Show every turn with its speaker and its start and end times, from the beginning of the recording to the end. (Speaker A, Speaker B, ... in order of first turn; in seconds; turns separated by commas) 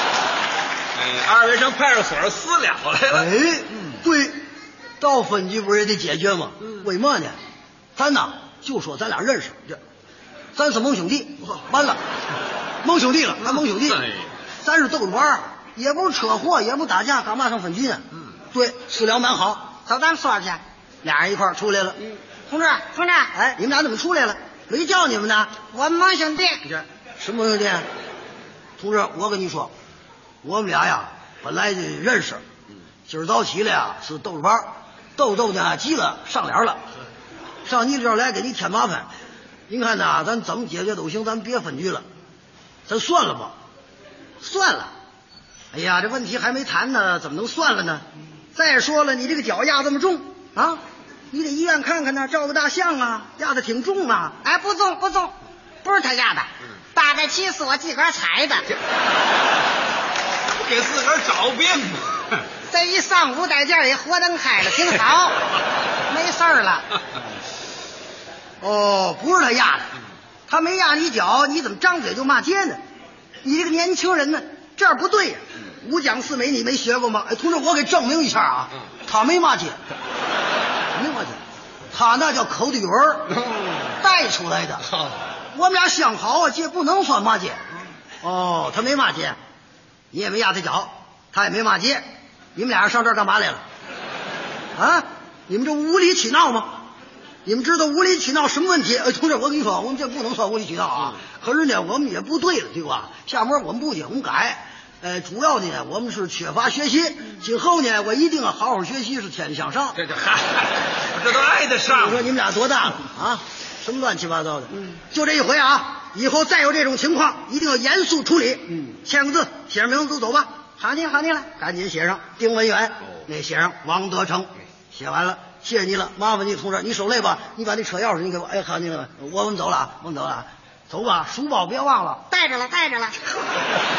Speaker A: 0.9-3.1, Speaker B: 3.1-4.4, Speaker B: 5.0-7.4, Speaker B: 8.0-9.6, Speaker B: 10.6-12.0, Speaker B: 12.8-14.1, Speaker B: 14.6-19.8, Speaker C: 19.9-20.6, Speaker B: 21.0-22.0, Speaker C: 22.5-23.3, Speaker B: 23.3-25.6, Speaker C: 25.7-26.7, Speaker B: 27.2-27.9, Speaker B: 28.8-29.7, Speaker B: 30.4-32.4, Speaker B: 33.1-36.8, Speaker B: 37.7-39.1, Speaker B: 39.7-42.0, Speaker B: 42.9-43.5, Speaker B: 44.4-44.9, Speaker B: 45.7-50.8, Speaker B: 51.3-54.4, Speaker C: 54.4-58.7, Speaker A: 60.6-62.4, Speaker C: 62.7-65.4, Speaker C: 66.1-66.9, Speaker B: 68.6-69.9, Speaker B: 70.5-72.8, Speaker B: 73.4-79.8, Speaker B: 80.9-81.4, Speaker B: 81.9-83.4, Speaker B: 84.0-84.9, Speaker B: 85.5-87.6, Speaker B: 88.2-89.4, Speaker B: 90.1-92.0, Speaker B: 92.5-93.6, Speaker B: 94.8-96.8, Speaker B: 97.5-110.0, Speaker A: 110.1-111.9, Speaker B: 111.9-132.2, Speaker C: 132.3-133.3